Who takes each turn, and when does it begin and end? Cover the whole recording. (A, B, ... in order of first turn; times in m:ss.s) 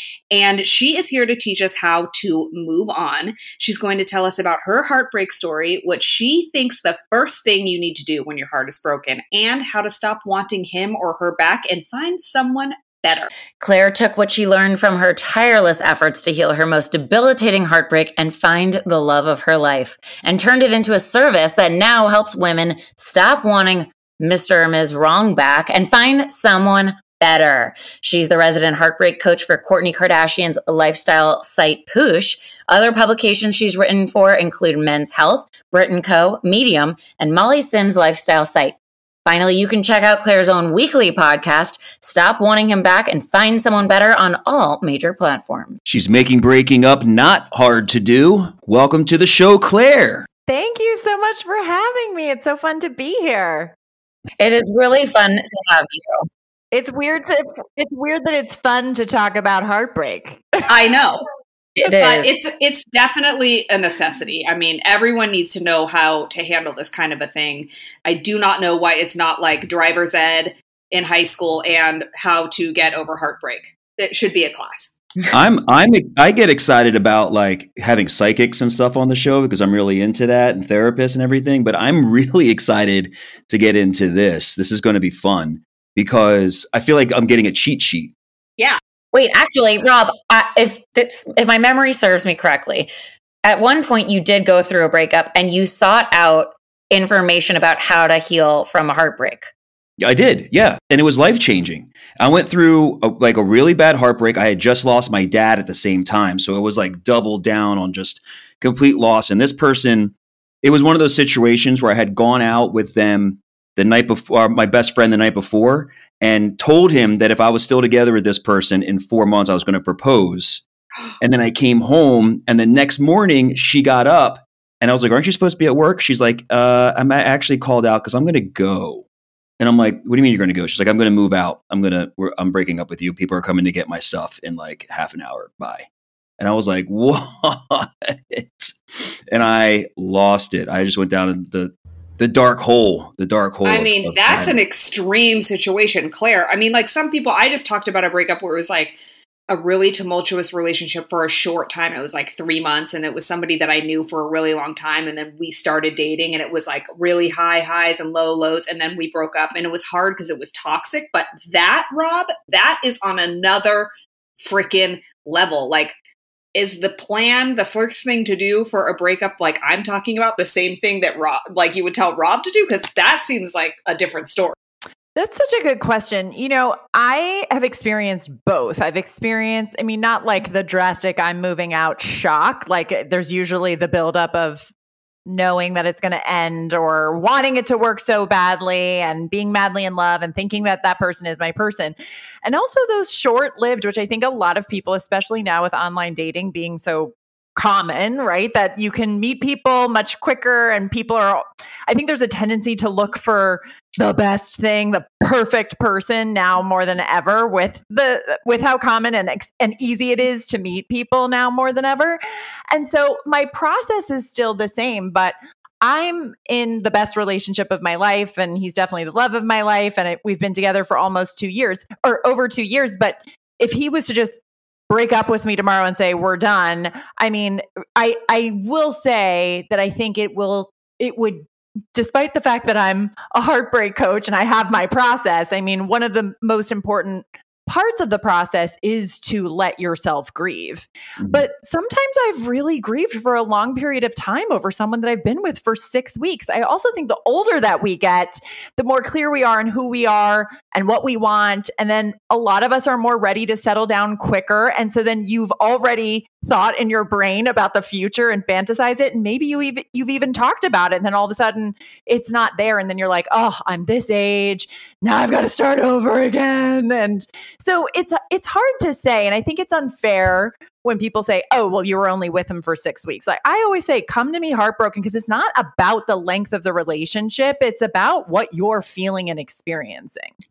0:00.3-0:13.3 A
0:13.6-0:45.8 B
0:45.8-0:50.3 C
0:50.5-0:53.7 D
0:54.4-0:56.2 B
0:56.7-1:00.7 D
1:00.7-1:01.2 A
1:01.8-1:02.3 B
1:01.8-1:14.9 A
1:15.3-1:28.1 C
1:29.1-1:32.9 B
1:33.4-1:39.5 B
1:40.0-2:00.6 C
2:01.2-2:09.0 C
2:09.6-2:15.8 C
2:16.4-2:24.6 C
2:23.6-2:29.0 A
2:29.5-2:45.9 A
2:46.5-2:54.6 A
2:55.2-3:04.7 D
3:05.2-4:40.3 D